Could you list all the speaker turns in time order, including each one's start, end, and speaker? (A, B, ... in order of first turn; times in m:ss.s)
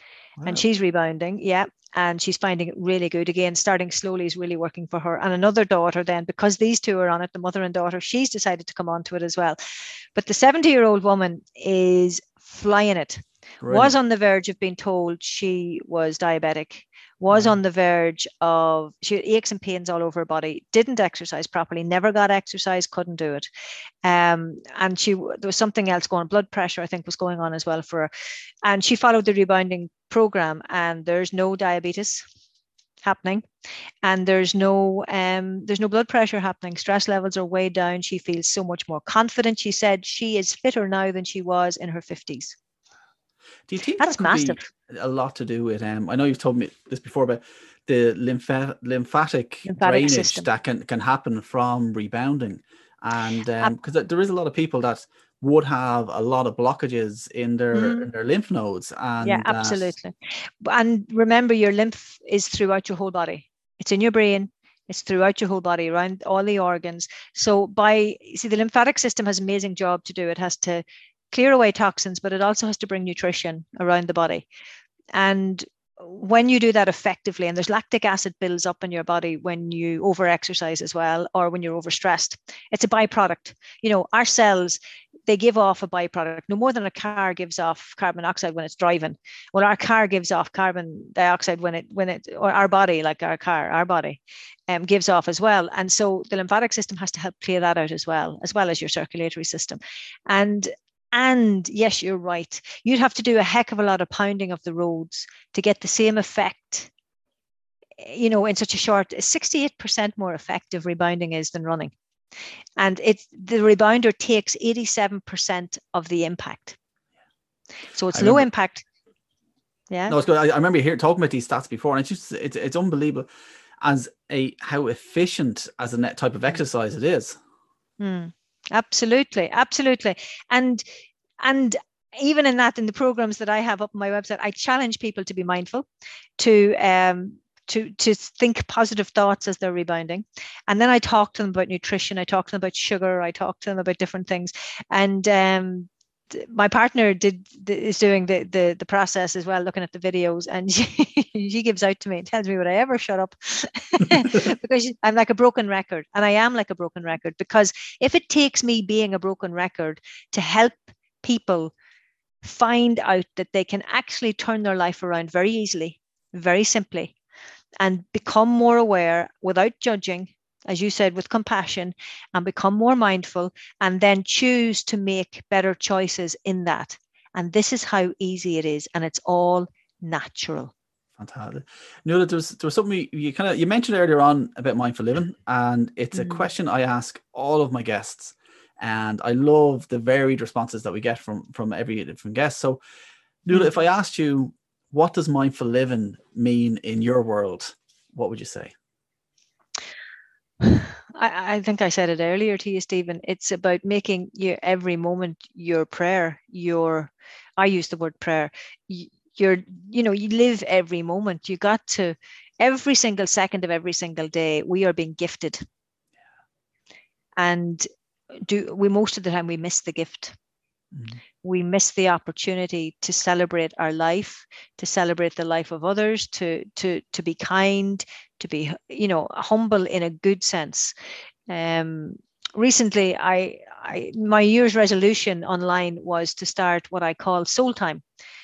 0:00.4-0:00.6 A
0:00.4-0:09.6 B
0:10.2-0:23.5 B
0:13.6-0:14.0 A
0:17.3-0:17.6 A
0:24.0-0:28.1 B
0:28.6-0:32.2 B
0:33.0-0:33.4 B
0:34.0-0:42.6 B
0:43.7-0:59.9 A
0:44.0-0:44.6 B
0:49.7-0:50.5 B
0:57.7-0:58.1 B
0:59.2-1:14.5 B
1:15.1-1:46.9 B
1:48.0-1:51.9 B
1:52.8-1:56.8 B
1:58.0-1:58.8 B
1:58.1-1:58.5 A
2:00.1-2:03.3 A
2:03.8-2:07.4 A
2:08.0-2:10.8 B
2:11.4-2:15.9 B
2:16.4-2:41.7 B
2:42.4-2:47.2 B
2:47.8-3:00.7 B
3:01.2-3:12.8 A
3:06.2-3:06.5 B
3:13.4-3:18.7 A
3:20.6-3:35.6 B
3:37.4-3:37.9 B
3:38.4-3:40.4 B
3:40.9-3:41.2 A
3:41.4-3:50.9 B
3:51.5-3:58.0 B